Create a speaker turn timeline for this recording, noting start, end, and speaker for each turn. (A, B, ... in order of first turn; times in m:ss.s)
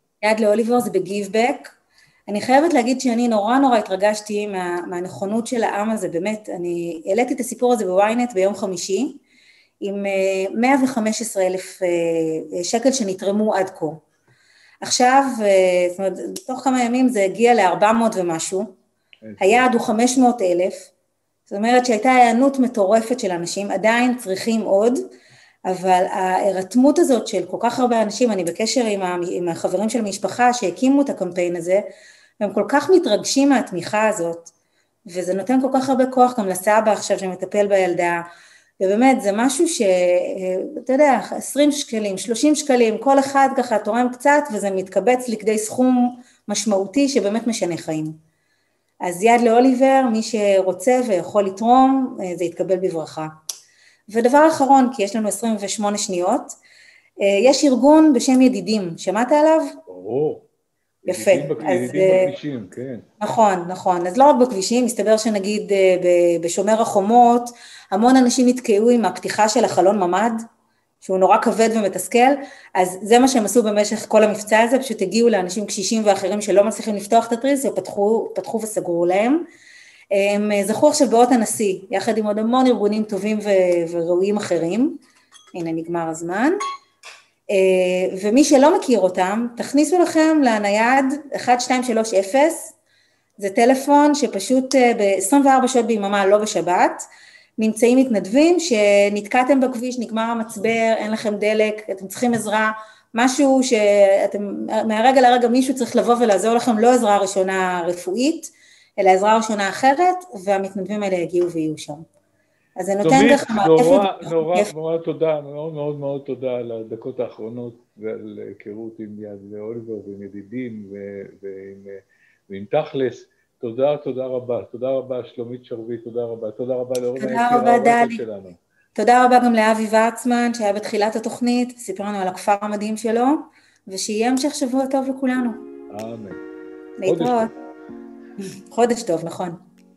0:00.2-0:01.7 A
0:02.3-0:09.2 A
0:09.8-0:14.0 A
0:14.8-0:18.8 A
0:19.2-0:19.7 B
0:19.4-0:20.9 A
0:21.5-0:25.1 A
0:25.7-0:31.8 A
0:32.4-0:34.5 A
0:35.1-0:38.2 A
0:38.8-0:48.2 A
0:49.0-0:53.3 A
0:54.1-0:56.6 A
0:57.2-0:59.8 A
0:59.9-1:00.4 B
1:01.0-1:03.1 B
1:01.1-1:02.3 A
1:03.2-1:10.4 A
1:11.0-1:19.4 A
1:20.1-1:25.0 A
1:25.5-1:26.6 A
1:27.5-1:32.7 A
1:33.4-1:37.0 A
1:37.6-1:52.0 A
1:52.8-1:54.7 A
1:53.0-2:08.6 B
2:07.2-2:08.2 A
2:09.0-2:15.6 A
2:15.9-2:16.4 B
2:17.0-2:17.5 A
2:17.0-2:17.5 B
2:18.4-2:19.6 A